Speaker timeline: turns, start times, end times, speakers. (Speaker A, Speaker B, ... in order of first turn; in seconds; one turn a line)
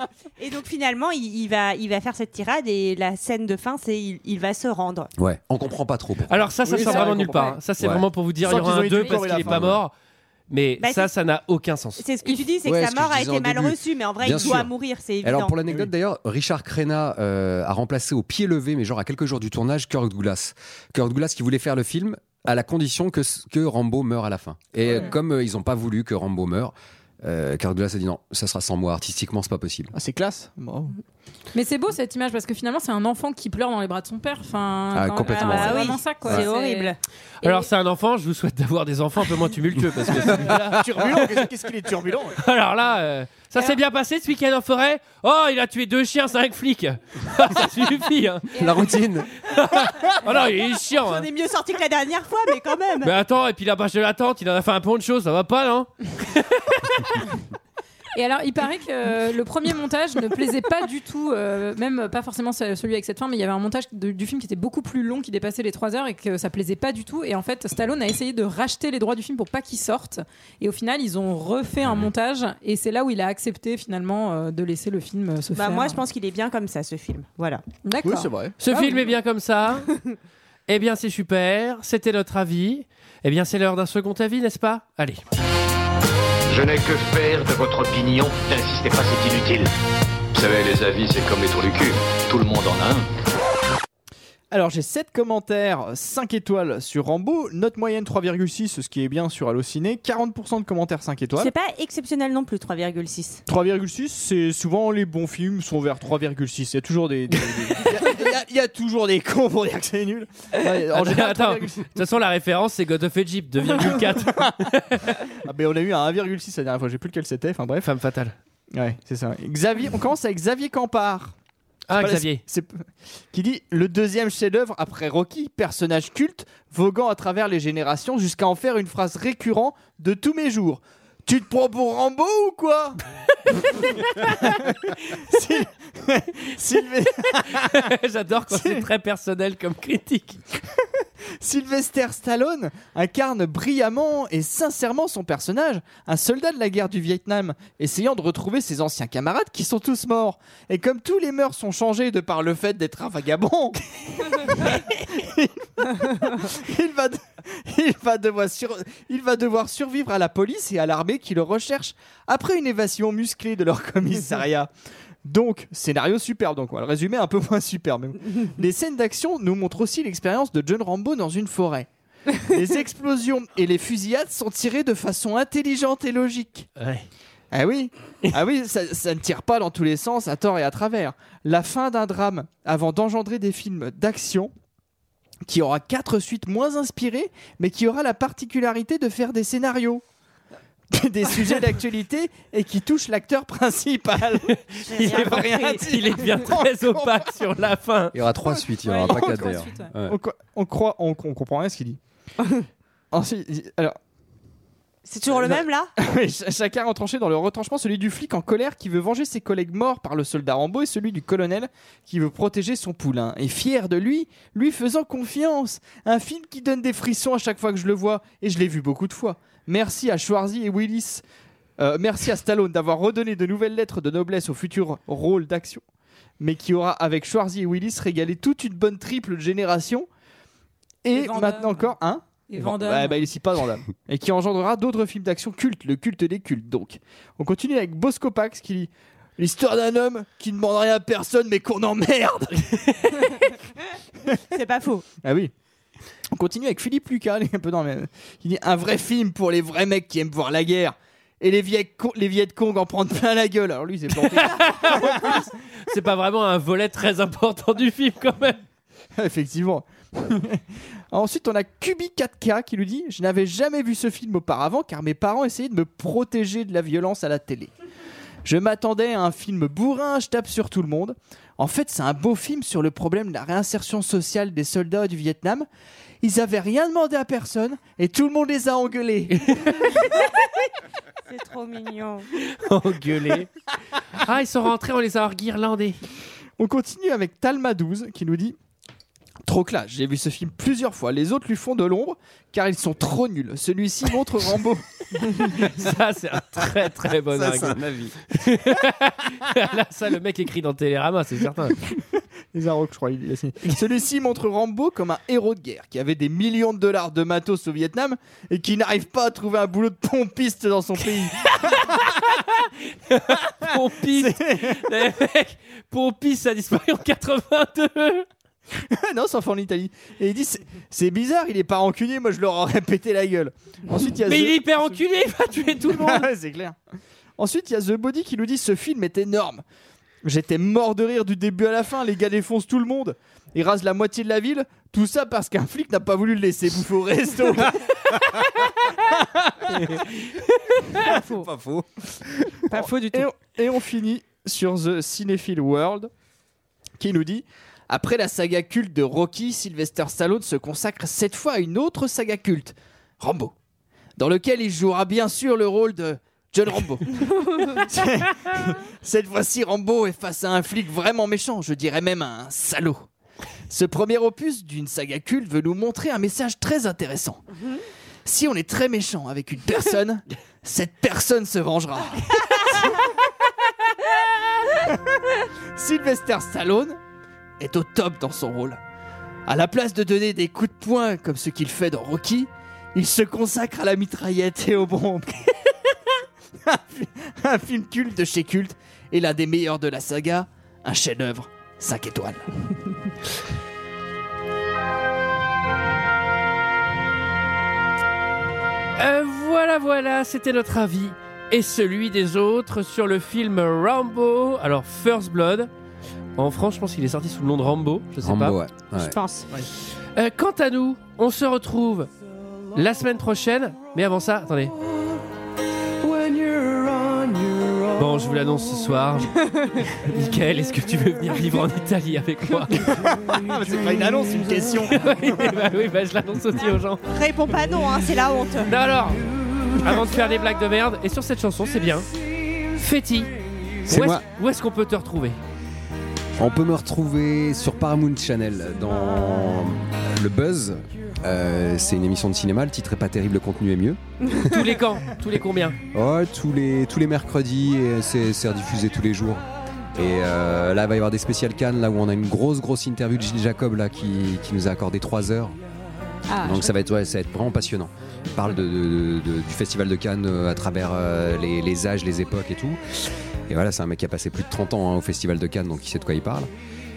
Speaker A: 0.4-5.1
Speaker B: 5.2-6.5
Speaker C: 6.3-9.9
Speaker D: 6.6-7.5
Speaker E: 6.7-7.5
Speaker B: 7.8-8.1
Speaker D: 8.4-9.7
Speaker B: 9.4-9.8
Speaker C: 10.5-12.1
Speaker A: 10.8-11.1
Speaker A: 12.0-15.5
Speaker B: 12.6-29.9
Speaker D: 29.9-30.9
Speaker E: 31.5-36.9
Speaker B: 34.9-36.5
Speaker A: 35.2-37.0
Speaker C: 37.4-41.4
Speaker D: 40.4-42.4
Speaker C: 42.4-48.5
Speaker E: 48.5-49.1
Speaker B: 48.6-49.3
Speaker C: 49.4-51.3
Speaker A: 50.9-53.1
Speaker C: 53.0-57.2
Speaker E: 58.2-76.0
Speaker A: 75.5-77.6
Speaker E: 77.8-79.1
Speaker D: 78.0-78.6
Speaker C: 78.6-79.9
Speaker C: 80.7-85.2
Speaker F: 86.5-89.6
Speaker F: 90.3-93.0
Speaker D: 94.5-101.5
Speaker A: 101.4-103.4
Speaker D: 103.5-112.0
Speaker C: 110.5-115.2
Speaker D: 114.0-114.5
Speaker D: 115.3-117.9
Speaker C: 117.8-118.3
Speaker D: 118.7-121.3
Speaker C: 121.9-122.4
Speaker D: 122.0-133.0
Speaker D: 133.6-137.8
Speaker C: 137.3-140.4
Speaker D: 138.5-138.8
Speaker D: 141.4-164.7
Speaker D: 165.3-176.7
Speaker C: 176.8-177.1
Speaker D: 177.5-184.5
Speaker D: 185.5-190.0
Speaker D: 190.9-197.2
Speaker C: 194.5-198.2
Speaker A: 194.9-195.8
Speaker B: 198.1-200.2
Speaker E: 198.8-199.9
Speaker D: 199.0-202.0
Speaker A: 202.4-202.7
Speaker D: 203.1-204.0
Speaker A: 205.1-205.9
Speaker D: 205.3-221.2
Speaker D: 221.8-225.8
Speaker D: 226.4-230.1
Speaker D: 231.0-243.2
Speaker E: 231.1-233.3
Speaker A: 244.5-245.1
Speaker D: 245.2-245.5
Speaker D: 246.3-255.5
Speaker C: 254.3-258.6
Speaker D: 259.2-267.7
Speaker D: 268.4-275.7
Speaker D: 276.2-279.4
Speaker C: 279.3-280.1
Speaker A: 281.3-282.3
Speaker C: 282.4-283.5
Speaker C: 284.1-286.0
Speaker D: 286.6-288.6
Speaker D: 289.4-295.6
Speaker C: 295.6-297.8
Speaker B: 297.3-298.2
Speaker C: 298.3-301.8
Speaker D: 301.9-312.2
Speaker C: 311.9-318.3
Speaker D: 314.1-314.8
Speaker D: 318.8-325.0
Speaker C: 324.3-326.3
Speaker D: 325.9-326.8
Speaker D: 327.4-329.6
Speaker D: 330.2-338.1
Speaker D: 339.0-340.0
Speaker C: 339.8-340.1
Speaker C: 340.8-341.0
Speaker A: 341.0-341.5
Speaker B: 341.3-341.9
Speaker A: 342.7-343.3
Speaker D: 342.7-346.1
Speaker D: 347.0-353.5
Speaker D: 354.2-357.1
Speaker D: 357.7-363.1
Speaker D: 363.7-367.4
Speaker D: 368.2-373.1
Speaker D: 374.7-375.2
Speaker D: 375.8-377.0
Speaker D: 377.6-378.8
Speaker D: 379.5-385.9
Speaker D: 386.6-392.4
Speaker C: 399.0-405.7
Speaker C: 406.4-408.6
Speaker B: 408.2-409.2
Speaker A: 408.9-409.5
Speaker C: 410.2-412.1
Speaker C: 412.8-414.7
Speaker D: 416.1-417.6
Speaker C: 417.9-419.3
Speaker A: 419.6-419.9
Speaker C: 420.0-423.2
Speaker D: 422.7-425.6
Speaker C: 424.9-427.0
Speaker A: 427.1-428.7
Speaker C: 428.7-432.1
Speaker C: 432.7-433.3
Speaker C: 433.8-435.4
Speaker B: 433.9-434.2
Speaker B: 436.4-444.6
Speaker C: 444.4-445.8
Speaker B: 445.9-455.6
Speaker E: 456.3-456.9
Speaker B: 456.4-466.5